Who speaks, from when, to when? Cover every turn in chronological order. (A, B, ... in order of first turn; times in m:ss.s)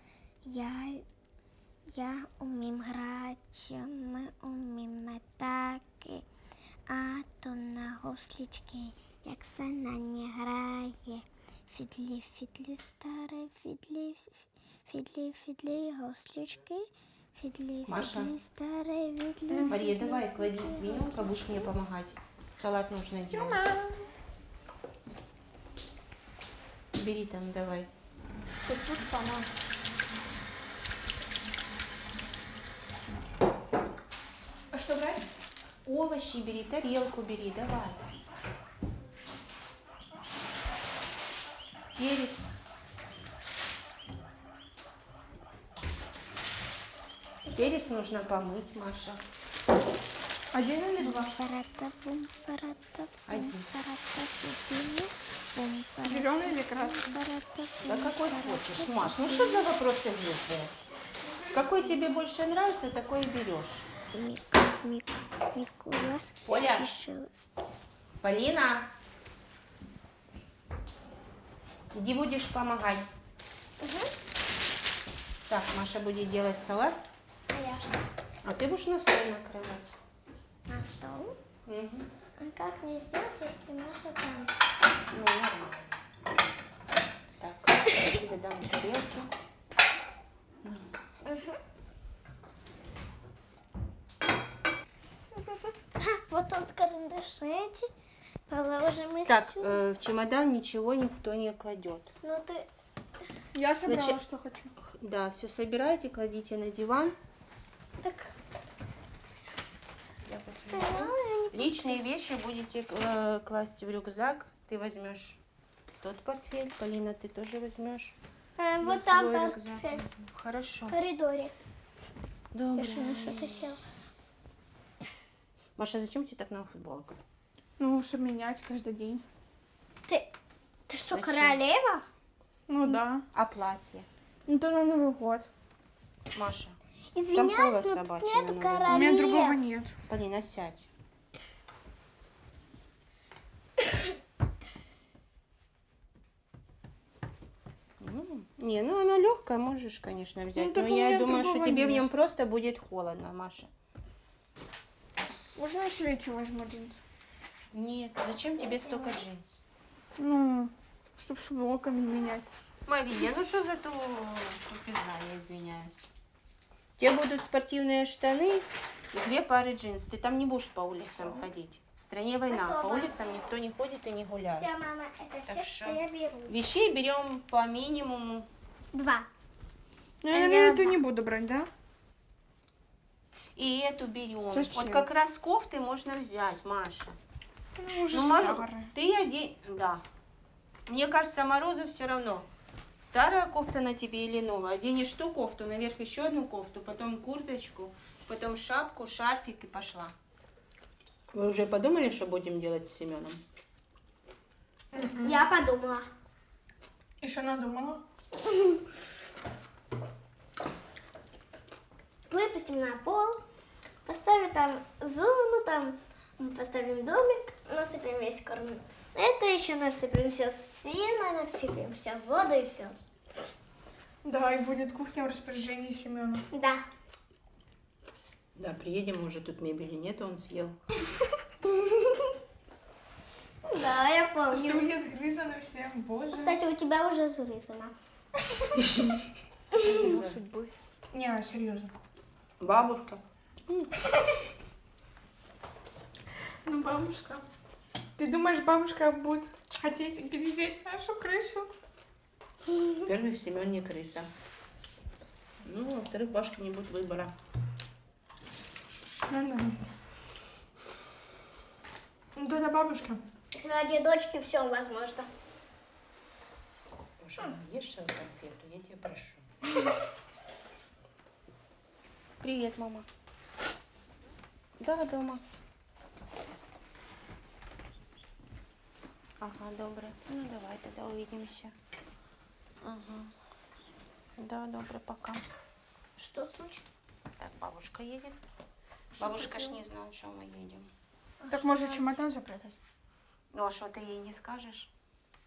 0:00.4-0:01.0 A
0:01.9-0:06.2 A
0:06.9-0:21.7 A
0:17.8-0:18.3 B
0:19.5-0:19.8 C
0:19.7-0:23.6 B
0:23.1-0:24.1 C
0:26.9-0:27.9 B
0:28.6-0:29.5 C
0:34.7-0:35.2 C
0:35.8-0:38.2 B
0:42.0-0:42.5 B
0:47.5-0:49.2 B
0:50.5-0:51.3 C
0:51.0-0:59.8 A
0:53.3-0:53.7 B
0:56.0-0:57.2 C
0:57.8-1:00.7 B
1:01.5-1:03.9 B
1:04.1-1:07.5 A
1:06.4-1:07.0 B
1:08.2-1:08.9 B
1:11.9-1:13.1 B
1:13.8-1:14.1 A
1:15.5-1:17.0 B
1:17.5-1:18.0 A
1:18.4-1:20.0 B
1:20.7-1:21.4 A
1:21.7-1:22.1 B
1:22.4-1:24.5 A
1:25.1-1:25.9 B
1:27.4-1:29.3 B
1:36.0-1:37.9 A
1:38.5-1:39.8 A
1:39.2-1:42.1 B
1:42.2-1:42.7 A
1:43.5-1:44.7 C
1:43.8-1:44.2 B
1:44.8-1:47.2 B
1:48.0-1:48.3 A
1:50.2-1:55.4 B
1:50.7-1:52.0 A
1:56.0-1:58.2 B
1:58.6-2:00.0 A
1:58.8-2:01.0 B
2:00.9-2:01.5 A
2:02.5-2:03.7 B
2:02.8-2:03.8 A
2:05.8-2:07.2 B
2:07.8-2:09.2 C
2:10.1-2:10.3 A
2:10.9-2:12.0 A
2:11.1-2:11.6 B
2:12.7-2:13.2 C
2:12.8-2:14.1 B
2:14.5-2:15.5 C
2:16.3-2:16.8 B
2:17.1-2:19.6 A
2:17.3-2:19.2 B
2:18.9-2:20.0 C
2:20.1-2:20.9 B
2:28.0-2:33.7 B
2:30.5-2:32.1 C
2:35.5-2:37.0 C
2:37.7-2:39.6 B
2:40.2-2:42.5 C
2:42.8-2:46.1 B
2:47.0-2:54.7 B
2:52.5-2:53.2 A
2:54.5-2:56.6 A
2:55.4-2:58.5 B
2:58.9-2:59.3 A
3:00.2-3:01.7 C
3:00.3-3:01.0 A
3:03.6-3:07.2 B
3:04.5-3:05.1 C
3:07.8-3:08.9 C
3:08.1-3:10.0 B
3:10.9-3:12.5 B
3:13.0-3:20.1 B
3:21.3-3:23.4 B
3:24.9-3:25.4 C
3:24.9-3:26.1 A
3:27.2-3:28.0 C
3:28.4-3:28.8 A
3:32.3-3:33.4 A
3:34.0-3:43.0 A
3:44.2-3:46.4 C
3:46.5-3:46.8 A
3:48.6-3:50.8 B
3:53.6-3:54.8 A
3:54.5-3:56.6 C
3:56.3-3:57.9 A
3:58.6-3:59.0 C
3:59.8-4:01.9 C
3:59.8-4:00.4 B
4:02.6-4:03.9 B
4:06.6-4:07.4 C
4:08.2-4:11.7 C
4:13.0-4:14.3 B
4:15.6-4:17.4 B
4:19.3-4:19.9 C
4:22.4-4:23.2 C
4:23.5-4:25.3 A
4:27.2-4:29.5 B
4:32.4-4:33.1 B
4:34.8-4:35.4 B
4:39.4-4:41.7 B
4:42.8-4:43.3 B
4:44.4-4:45.4 B
4:46.2-4:46.8 A
4:47.4-4:48.4 B
4:49.2-4:49.8 C
4:49.2-4:50.9 B
4:51.4-4:52.1 A
4:51.5-4:52.8 C
4:53.5-4:54.9 B